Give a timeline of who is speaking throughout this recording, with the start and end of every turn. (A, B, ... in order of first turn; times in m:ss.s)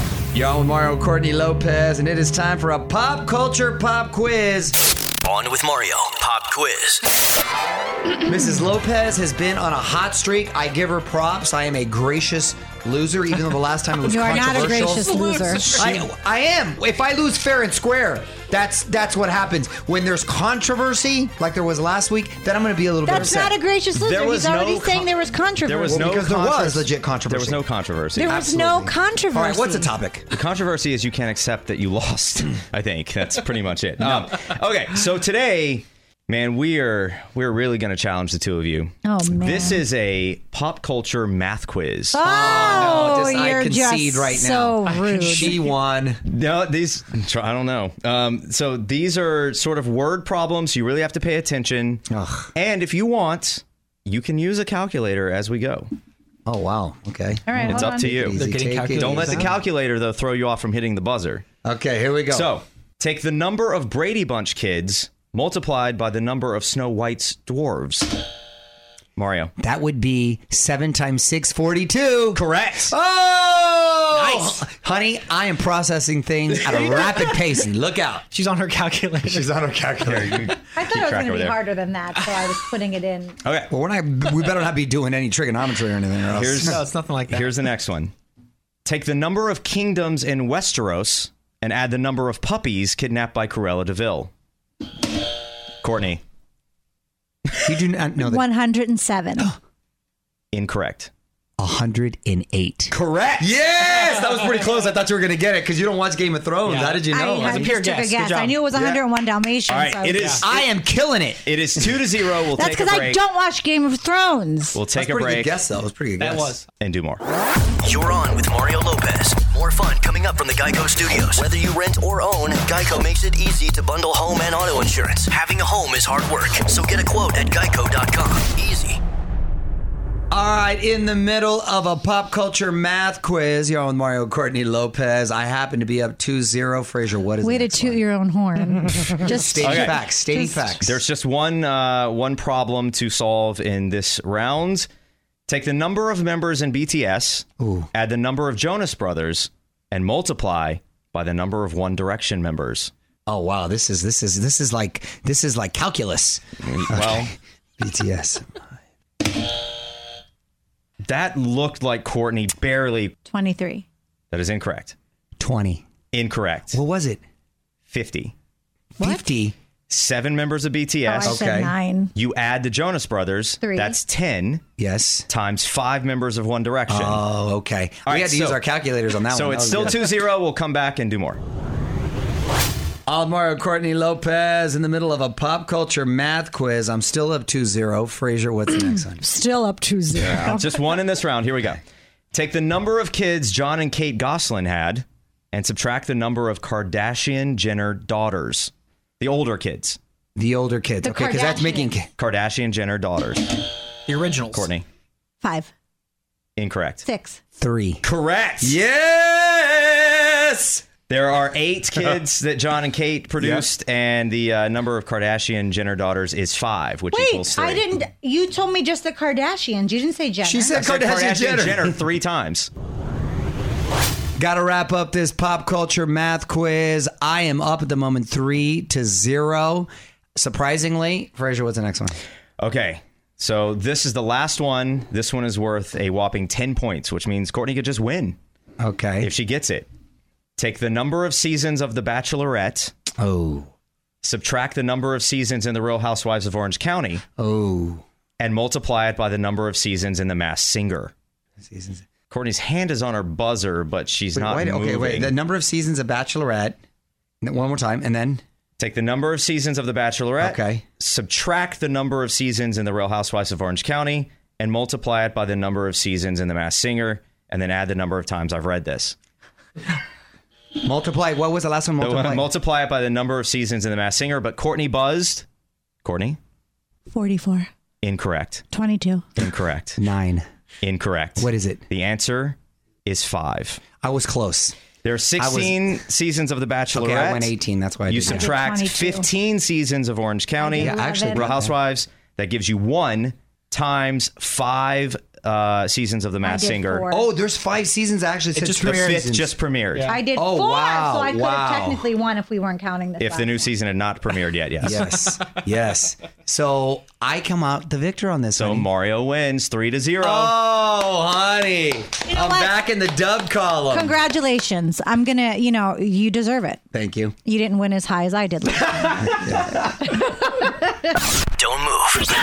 0:00.3-0:04.8 A
0:08.2-0:23.6 A
0:14.0-0:15.8 B
0:15.3-0:15.9 C
0:23.0-0:26.1 B
0:24.0-0:25.1 D
0:25.6-0:28.3 D
0:25.9-0:27.6 A
0:28.2-0:29.9 B
0:28.2-0:30.3 A
0:30.3-0:43.0 D
0:39.0-0:39.8 B
0:42.1-0:45.6 B
0:42.2-0:46.2 A
0:46.3-0:55.9 D
0:52.1-0:52.5 A
0:56.5-0:59.5 A
0:57.5-0:58.3 B
0:57.7-1:01.4 D
0:58.3-0:59.5 C
1:01.6-1:02.6 A
1:02.3-1:08.1 D
1:09.2-1:09.5 D
1:09.6-1:18.3 A
1:12.3-1:12.9 D
1:14.1-1:14.6 C
1:18.3-1:20.6 C
1:19.3-1:20.6 A
1:20.1-1:21.6 D
1:20.7-1:23.4 B
1:23.4-1:23.7 D
1:23.7-1:26.8 A
1:26.4-1:28.1 D
1:26.4-1:27.6 C
1:28.8-1:34.3 D
1:35.8-1:36.2 D
1:37.6-1:38.4 A
1:38.2-1:39.6 B
1:40.5-1:41.1 D
1:41.6-1:47.8 A
1:42.9-1:43.3 D
1:46.6-1:48.6 C
1:47.1-1:50.3 B
1:48.8-1:49.0 A
1:49.7-1:50.7 D
1:50.0-1:50.5 C
1:50.4-1:51.5 A
1:51.4-1:53.2 D
1:52.6-1:54.8 B
1:54.7-1:55.6 D
1:55.0-1:56.6 A
1:56.2-1:56.7 C
1:56.8-1:57.2 D
1:57.8-2:08.7 E
2:10.3-2:18.0 A
2:17.4-2:20.8 B
2:19.2-2:21.0 A
2:19.6-2:20.0 D
2:20.8-2:24.9 D
2:25.5-2:32.9 D
2:27.6-2:27.9 A
2:33.3-2:38.4 A
2:36.6-2:37.3 D
2:41.0-2:43.2 D
2:43.3-2:43.9 B
2:44.3-2:45.0 D
2:45.4-2:45.8 A
2:46.1-2:46.8 D
2:46.7-2:47.2 A
2:47.9-2:48.3 D
2:49.0-2:49.6 A
2:49.0-2:49.2 B
2:49.9-2:51.5 D
2:51.1-2:52.1 B
2:51.2-2:51.8 A
2:52.1-2:54.6 D
2:53.6-2:54.0 B
2:54.8-2:55.3 A
2:55.3-2:57.2 D
2:56.9-3:00.1 A
2:58.1-2:58.6 D
2:59.3-3:01.4 D
3:03.1-3:09.3 A
3:09.0-3:10.8 B
3:10.2-3:11.8 D
3:12.3-3:20.0 D
3:20.4-3:22.1 A
3:21.0-3:21.9 B
3:22.2-3:23.6 D
3:24.1-3:24.7 C
3:24.5-3:24.8 D
3:25.4-3:25.7 B
3:26.6-3:27.0 D
3:27.0-3:27.4 B
3:27.6-3:28.0 A
3:28.0-3:28.8 D
3:28.6-3:30.8 A
3:31.1-3:37.8 D
3:33.4-3:33.7 A
3:37.1-3:40.8 B
3:40.4-3:42.0 A
3:40.7-3:42.7 D
3:44.4-3:52.2 A
3:52.6-3:58.4 D
3:58.8-3:59.3 A
3:59.2-3:59.9 D
4:00.6-4:02.9 D
4:03.2-4:03.7 A
4:04.2-4:07.2 D
4:07.4-4:08.0 A
4:08.4-4:11.1 D
4:11.6-4:12.0 A
4:12.3-4:15.4 D
4:14.4-4:16.8 A
4:17.4-4:18.4 A
4:18.8-4:29.2 D
4:20.4-4:20.8 A
4:30.8-4:32.5 A
4:32.0-4:35.4 D
4:36.0-4:36.4 D
4:37.1-4:37.7 B
4:38.0-4:38.6 D
4:38.7-4:39.2 B
4:39.4-4:40.0 D
4:40.0-4:40.4 A
4:40.8-4:43.8 D
4:41.4-4:41.8 A
4:44.0-4:44.8 A
4:45.0-4:47.5 D
4:45.4-4:46.0 A
4:46.9-4:48.5 A
4:48.1-4:57.1 D
4:48.2-4:49.3 B
4:50.6-4:51.5 B
4:50.8-4:51.7 A
4:56.4-4:57.2 B
4:57.1-4:59.5 A
4:58.6-4:59.3 C
4:58.8-5:00.1 D
4:59.9-5:00.2 C
5:00.1-5:03.7 B
5:00.4-5:02.1 A
5:03.2-5:05.0 D
5:04.8-5:08.9 A
5:08.6-5:10.6 D
5:10.2-5:14.2 A
5:12.3-5:12.7 B
5:13.9-5:16.8 B
5:16.9-5:17.4 A
5:17.4-5:19.5 B
5:19.2-5:19.9 A
5:20.1-5:20.7 B